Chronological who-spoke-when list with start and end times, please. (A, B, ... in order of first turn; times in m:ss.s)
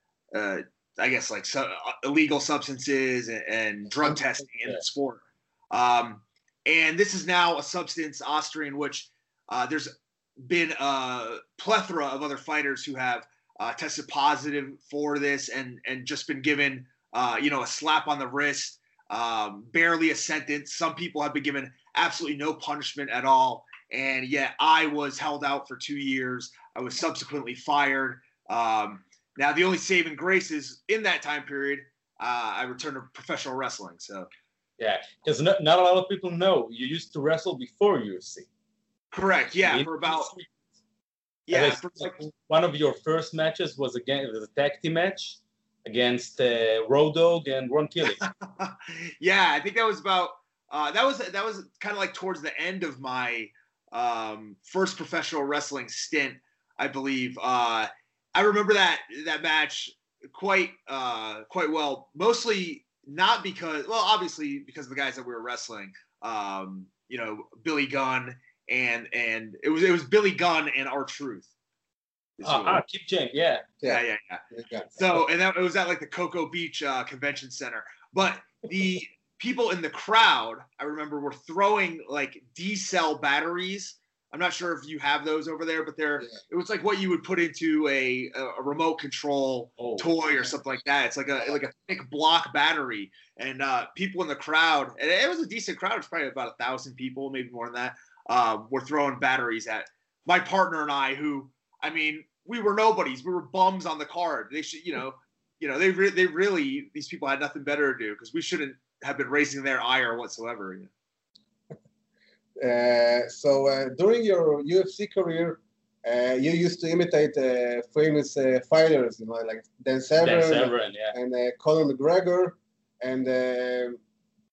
0:00.3-0:34.3 A
0:34.8-0:38.5 B
0:39.1-0:40.3 A
0:39.6-0:40.5 B
0:41.5-0:42.2 A
0:41.5-0:48.2 B
0:48.2-1:11.5 A
1:12.4-1:12.8 A
1:12.4-1:13.7 B
1:13.8-1:14.9 C
1:13.8-1:14.4 A
1:15.0-1:50.9 A
1:29.8-1:30.1 B
1:52.6-2:04.0 C
2:00.2-2:01.1 B